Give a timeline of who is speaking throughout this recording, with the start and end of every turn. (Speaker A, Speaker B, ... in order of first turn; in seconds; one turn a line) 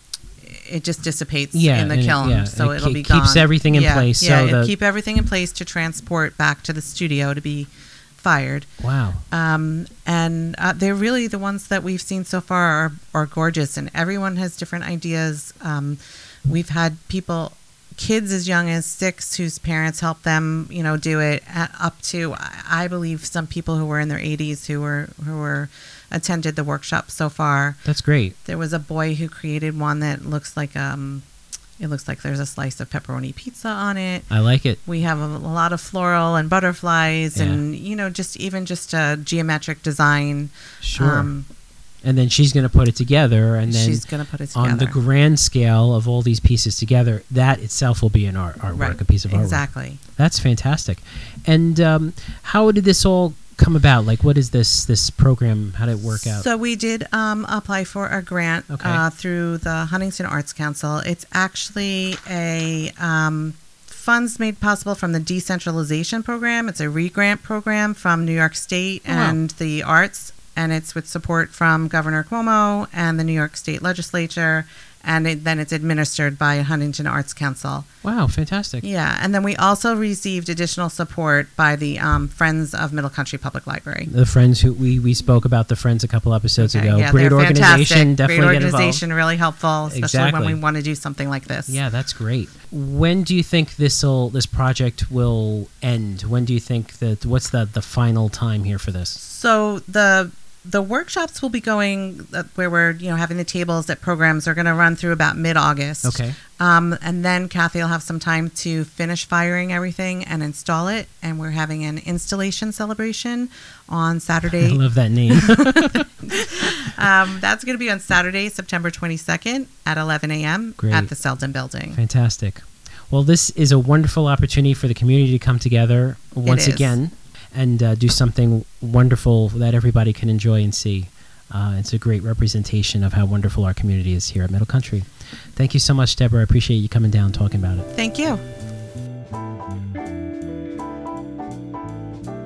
Speaker A: 0.4-8.7
Speaker B: 1.5-4.7
Speaker B: 8.8-9.2
Speaker A: 9.3-27.8
Speaker B: 27.9-28.4
Speaker A: 28.4-31.2
Speaker A: 31.8-34.3
Speaker B: 34.3-34.8
Speaker A: 34.9-41.5
Speaker B: 37.3-37.6
Speaker B: 40.8-41.3
Speaker B: 42.0-56.5
Speaker A: 43.6-45.0
Speaker A: 48.7-50.0
Speaker A: 56.3-77.9
Speaker B: 58.7-59.0
Speaker B: 69.1-69.4
Speaker B: 78.0-78.8
Speaker A: 78.8-84.1
Speaker B: 84.1-89.0
Speaker A: 86.6-91.8
Speaker B: 89.9-90.6
Speaker B: 91.7-99.2
Speaker A: 99.2-116.0
Speaker B: 106.0-106.4
Speaker B: 114.5-116.5
Speaker A: 116.6-122.0
Speaker B: 120.8-121.1
Speaker B: 121.9-137.9
Speaker A: 126.5-127.0
Speaker A: 137.9-138.4